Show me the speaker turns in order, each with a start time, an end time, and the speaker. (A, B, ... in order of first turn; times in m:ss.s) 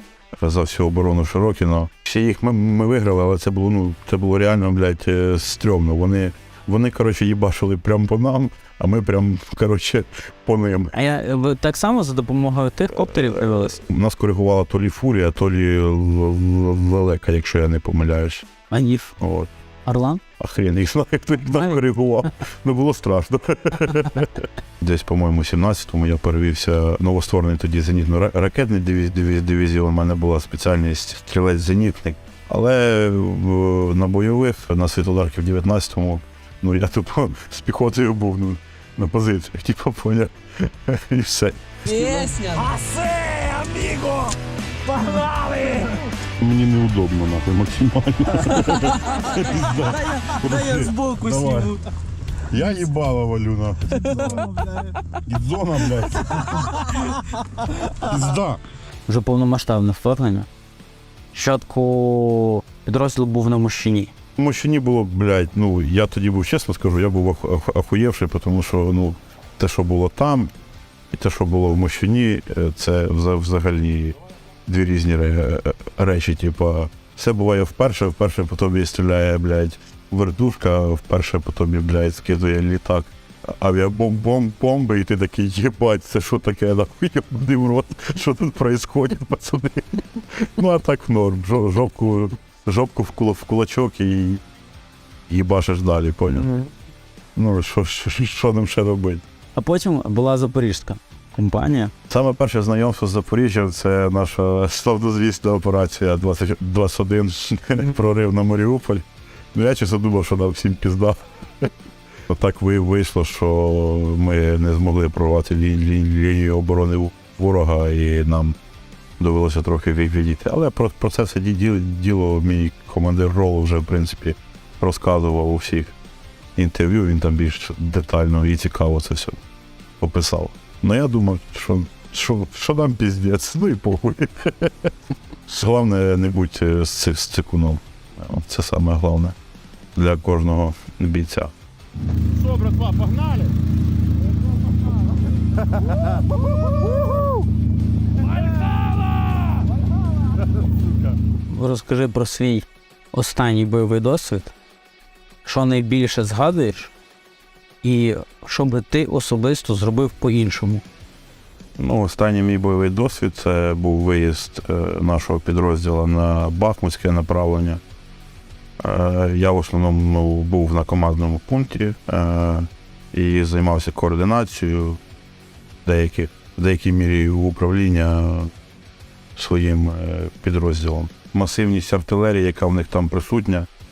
0:00.4-0:10.9 A
0:10.9-0:13.8 B
0:13.0-0:18.5 A
0:18.7-0:19.1 B
0:19.2-0:19.5 A
0:19.8-0:20.2 B
0:20.4-0:41.6 A
0:41.9-0:44.3 B
0:42.6-0:43.4 C
0:45.0-0:45.8 B
0:46.4-0:51.8 A
0:50.0-0:51.7 B
0:52.5-0:57.0 A
0:58.0-0:58.6 A
0:59.1-1:00.5 B
1:01.3-1:04.1 B
1:04.4-1:10.5 A
1:11.1-1:34.4 A
1:35.3-1:36.6 A
1:36.4-1:36.7 B
1:37.4-1:39.2 A
1:39.5-1:41.9 B
1:42.1-1:51.7 A
1:52.3-1:58.6 A
1:59.2-2:05.9 A
2:06.6-2:09.4 A
2:10.0-2:14.9 A
2:15.5-2:19.4 A
2:20.0-2:21.5 A
2:22.4-2:23.5 C
2:31.5-2:34.5 B
2:35.4-2:36.9 B
2:37.8-2:40.8 B
2:41.8-2:47.8 A
2:48.8-2:55.0 A
2:55.8-2:58.5 A
2:59.4-3:03.7 A